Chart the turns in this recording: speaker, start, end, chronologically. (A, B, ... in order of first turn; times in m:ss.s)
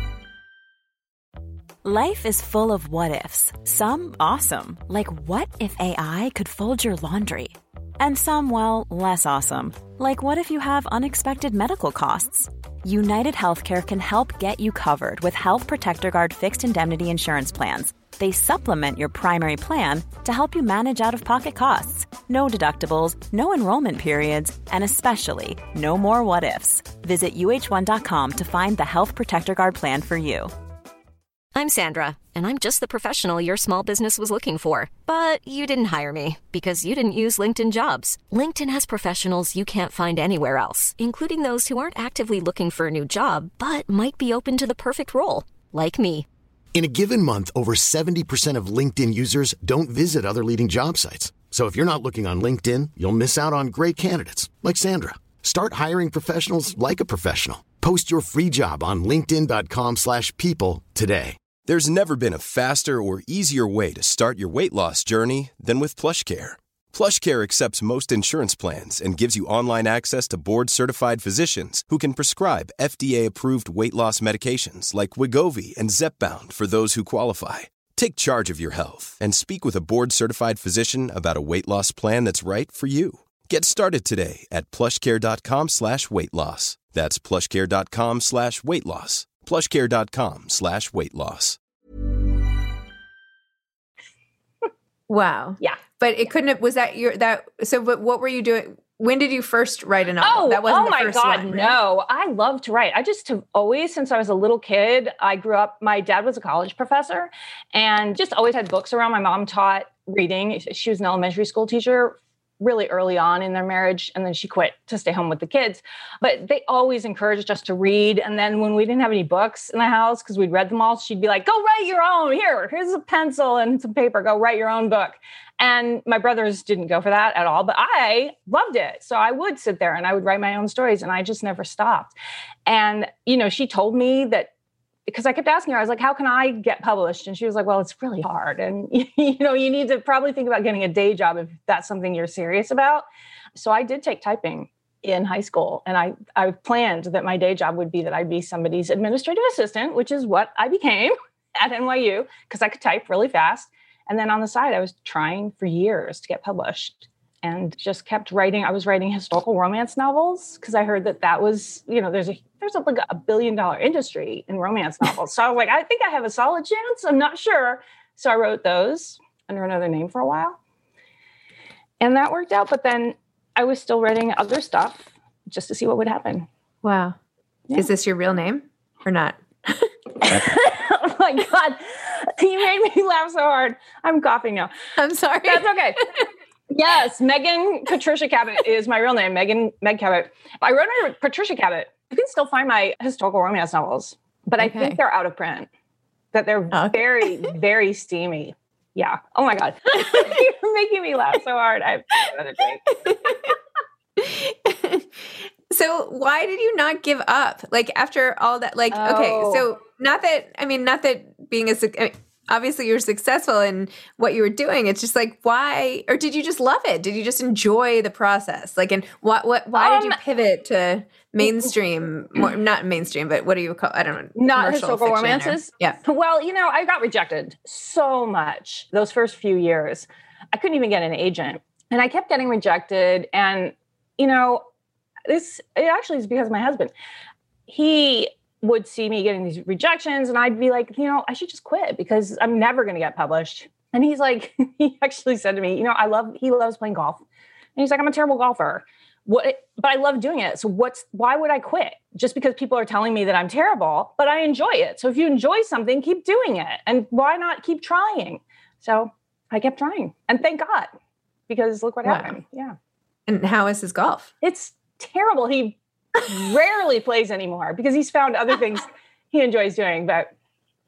0:01.8-0:30.5 A
0:31.5-0:46.2 B
0:46.8-1:01.4 C
1:01.6-1:31.6 D
1:35.1-1:41.8 E
1:40.2-2:12.2 F
2:12.7-2:14.5 F
2:15.1-2:50.6 F
2:52.0-2:56.5 F
2:56.8-2:57.2 E
2:57.7-3:00.4 E
3:00.2-3:04.7 F
3:05.0-3:05.8 E
3:05.4-3:06.0 F
3:06.7-3:15.7 F
3:14.6-3:15.0 E
3:16.3-3:23.1 F
3:16.7-3:17.5 E
3:20.0-3:20.3 E
3:23.0-3:23.6 E
3:24.2-3:46.0 E
3:28.9-3:29.7 F
3:39.8-3:40.2 F
3:44.4-3:54.6 F
3:55.3-3:56.9 F
3:57.7-4:07.2 F
4:07.8-4:20.9 F
4:21.5-4:22.8 F
4:22.0-4:22.3 E
4:23.3-4:24.3 E
4:24.4-4:30.3 F